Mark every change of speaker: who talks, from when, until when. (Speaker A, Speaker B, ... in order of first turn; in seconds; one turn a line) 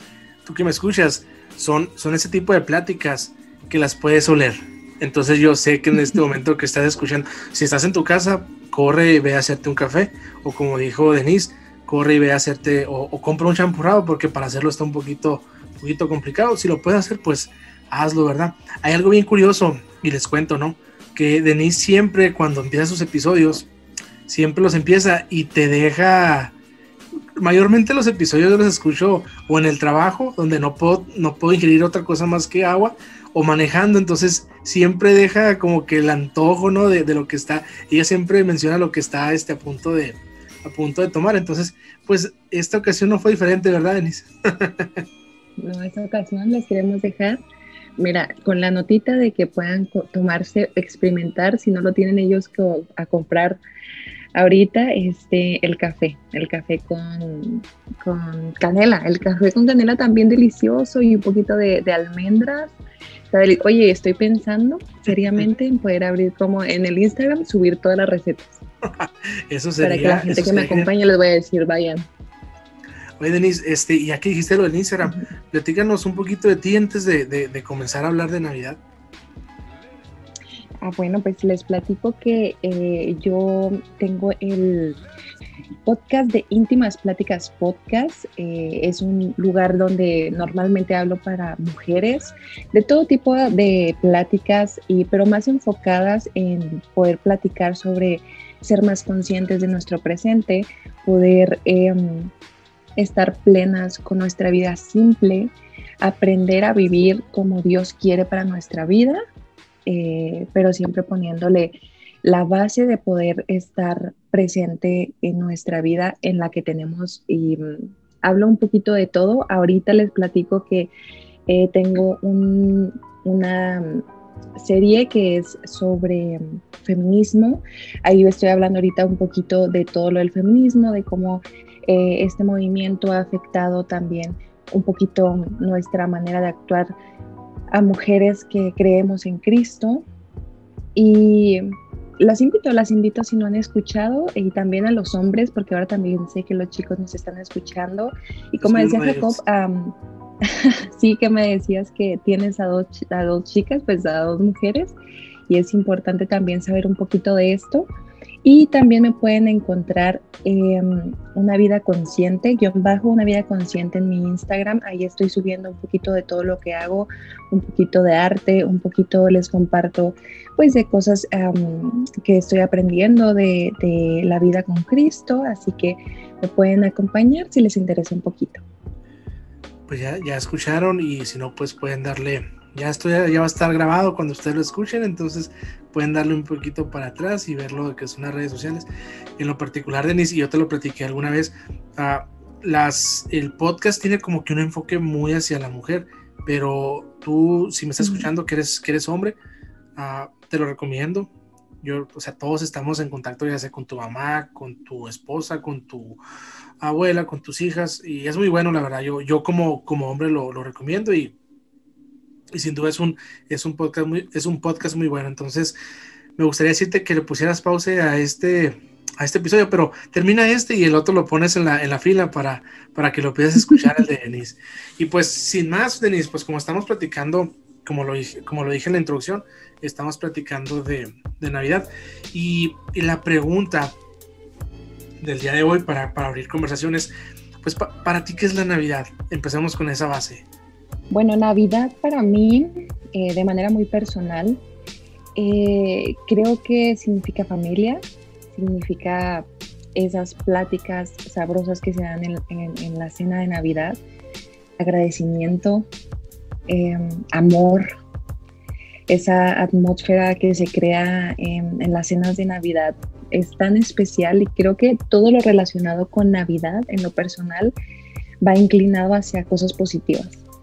Speaker A: 0.5-23.7
Speaker A: 24.3-26.5
Speaker A: 27.4-45.0
Speaker B: 45.6-47.4
Speaker B: 48.0-53.6
Speaker B: 54.4-62.8
Speaker B: 63.3-68.6
Speaker A: 68.9-70.9
Speaker B: 69.8-72.1
Speaker A: 73.2-78.8
Speaker B: 80.8-85.0
Speaker B: 85.9-102.3
Speaker B: 103.0-109.2
Speaker B: 109.9-120.9
Speaker B: 121.5-124.0
Speaker B: 124.6-136.9
Speaker B: 137.7-140.1
Speaker B: 140.9-155.0
Speaker A: 148.6-149.4
Speaker B: 155.5-157.9
Speaker B: 158.4-178.6
Speaker A: 179.9-188.9
Speaker A: 189.4-199.4
Speaker B: 198.0-198.3
Speaker A: 200.0-201.3
Speaker A: 201.8-206.2
Speaker A: 206.8-211.3
Speaker A: 212.5-215.8
Speaker A: 216.4-234.0
Speaker A: 235.2-237.1
Speaker A: 237.6-240.4
Speaker B: 241.1-244.6
Speaker B: 245.4-248.0
Speaker B: 248.5-254.0
Speaker B: 254.8-255.9
Speaker B: 256.7-257.9
Speaker B: 259.1-267.8
Speaker B: 268.4-270.4